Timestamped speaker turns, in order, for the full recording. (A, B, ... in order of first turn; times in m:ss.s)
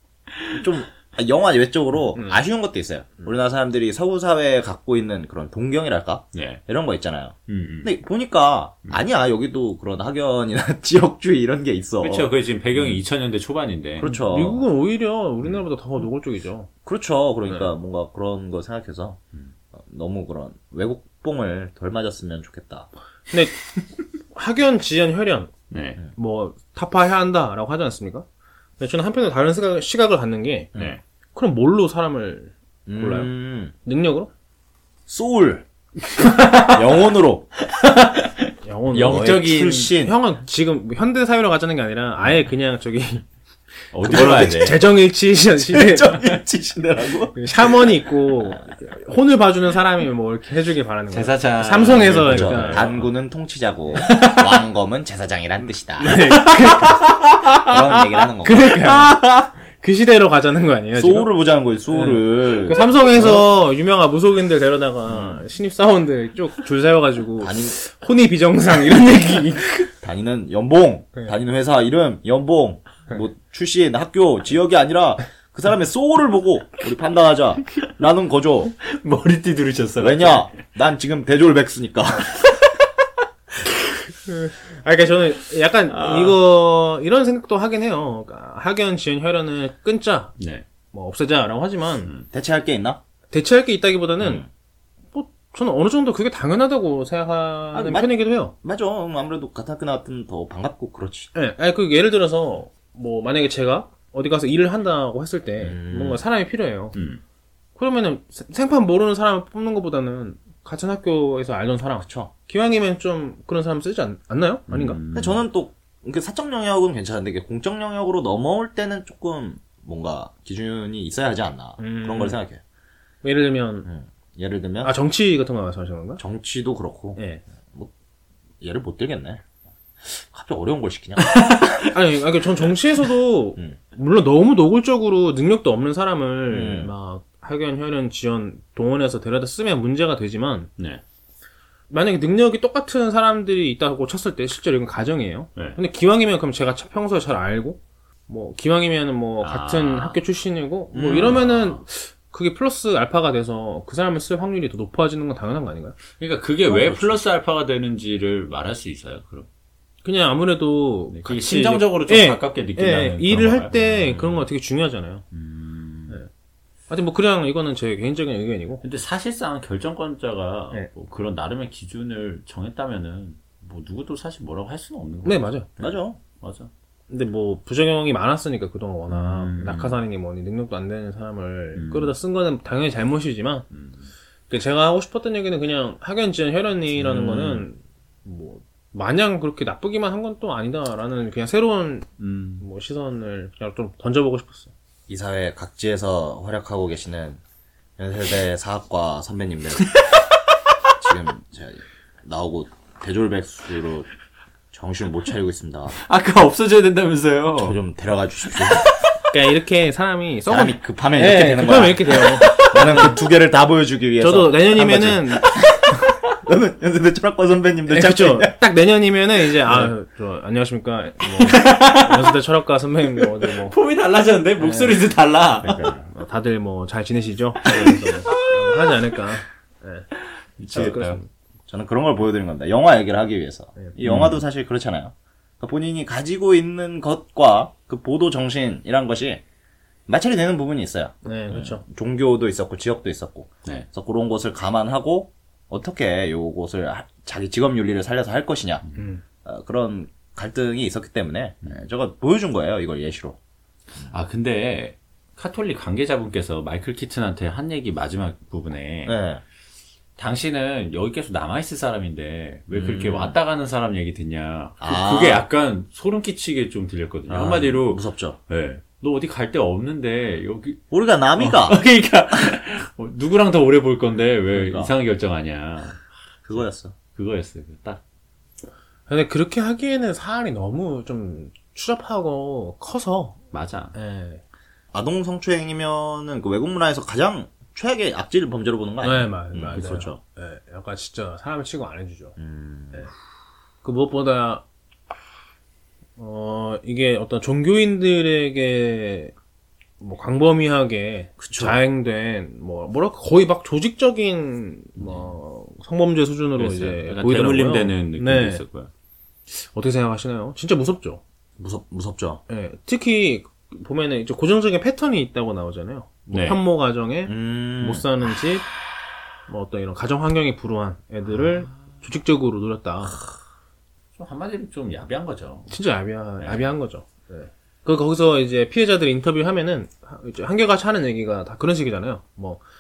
0:00.3-0:00.6 A
0:00.5-0:13.0 B
0:02.1-0:02.4 C
0:06.3-0:06.6 A
0:07.5-0:07.9 A
0:12.0-0:14.1 A
0:14.0-0:14.6 B
0:14.0-0:16.7 C
0:16.8-0:19.2 B
0:19.7-0:22.9 B
0:23.3-0:23.6 C
0:24.3-0:25.5 C
0:25.7-0:26.0 A
0:26.1-0:28.3 C
0:28.8-0:30.7 C
0:30.7-0:31.0 A
0:31.3-0:33.3 C
0:32.9-0:33.7 B
0:33.8-0:34.3 C
0:35.1-0:35.6 B
0:36.2-0:36.8 A
0:36.6-0:37.5 B
0:37.6-0:39.9 A
0:38.6-0:43.2 C
0:39.1-0:40.2 B
0:43.9-0:44.8 A
0:44.0-0:46.2 C
0:44.0-0:44.6 B
0:45.6-0:48.6 B
0:47.3-0:53.0 C
0:51.1-0:53.1 A
0:52.1-0:56.3 B
0:54.0-0:54.4 A
0:56.0-0:57.1 C
0:56.6-0:57.7 A
0:57.6-0:58.9 B
0:58.4-1:01.3 C
1:00.9-1:03.5 B
1:01.9-1:09.9 C
1:05.1-1:05.4 B
1:07.4-1:07.8 B
1:09.9-1:18.7 B
1:18.8-1:20.5 A
1:20.0-1:22.5 B
1:24.2-1:30.3 C
1:25.9-1:26.4 A
1:30.4-1:30.6 A
1:30.9-1:32.1 C
1:32.3-1:33.0 B
1:33.3-1:34.4 C
1:34.2-1:34.5 B
1:35.1-1:38.5 C
1:37.7-1:38.1 B
1:38.6-1:41.3 B
1:41.3-1:46.9 C
1:45.6-1:46.2 B
1:46.9-1:47.2 A
1:47.8-1:55.0 C
1:52.0-1:52.3 B
1:54.7-1:55.4 A
1:55.1-2:02.6 B
2:01.8-2:02.4 C
2:03.2-2:03.9 C
2:03.8-2:04.9 B
2:04.8-2:06.2 C
2:06.2-2:07.2 B
2:07.2-2:07.4 C
2:08.6-2:09.4 B
2:10.0-2:11.6 B
2:11.2-2:11.9 A
2:11.9-2:20.7 C
2:16.5-2:16.9 B
2:21.9-2:36.0 C
2:29.4-2:30.2 A
2:30.9-2:31.8 A
2:36.2-2:39.5 A
2:36.7-2:37.2 B
2:40.0-2:45.2 C
2:41.1-2:44.4 A
2:45.3-2:46.2 A
2:46.9-2:48.8 C
2:48.8-2:56.7 A
2:55.2-2:55.7 C
2:55.8-2:56.2 B
2:57.1-3:03.7 C
2:59.1-3:00.0 A
3:01.7-3:02.1 A
3:03.7-3:04.1 A
3:04.5-3:12.1 C
3:07.0-3:07.7 A
3:12.2-3:12.6 A
3:12.6-3:14.7 C
3:15.1-3:17.4 B
3:18.0-3:20.0 B
3:19.9-3:20.2 A
3:21.0-3:24.1 B
3:24.7-3:26.0 B
3:26.0-3:27.8 A
3:27.5-3:28.9 B
3:29.3-3:33.2 C
3:30.5-3:38.6 B
3:32.4-3:32.7 A
3:34.2-3:35.5 C
3:37.9-3:43.7 C
3:41.4-3:42.3 A
3:43.4-3:45.8 A
3:44.6-3:45.0 C
3:45.6-3:46.0 B
3:46.0-3:50.1 C
3:47.7-3:49.1 A
3:50.6-3:51.2 A
3:50.7-3:51.0 B
3:50.7-3:51.3 C
3:51.7-3:59.4 B
3:54.0-3:54.4 A
4:00.1-4:08.8 B
4:01.2-4:01.8 C
4:09.0-4:09.2 C
4:09.4-4:13.4 B
4:14.1-4:19.2 A
4:19.0-4:19.4 B
4:20.2-4:30.8 A
4:22.7-4:23.4 B
4:24.8-4:25.4 B
4:27.3-4:28.4 B
4:30.9-4:31.8 B
4:31.4-4:36.0 A
4:34.5-4:34.9 B
4:36.4-4:36.9 B
4:37.1-4:38.0 A
4:39.1-4:43.4 C
4:43.5-4:43.9 A
4:43.9-4:44.4 C
4:44.9-4:50.2 B
4:49.0-4:52.3 C
4:52.4-4:53.1 B
4:53.8-4:54.6 C
4:56.2-4:59.3 C
5:00.0-5:08.6 C
5:01.4-5:01.8 B
5:05.0-5:05.3 A
5:06.6-5:08.9 A
5:09.5-5:11.2 C
5:11.6-5:12.4 B
5:12.5-5:18.7 C
5:16.3-5:16.6 A
5:17.2-5:18.0 B
5:19.5-5:23.2 C
5:21.4-5:21.8 A
5:24.2-5:25.8 A
5:25.7-5:32.6 C
5:26.4-5:26.6 A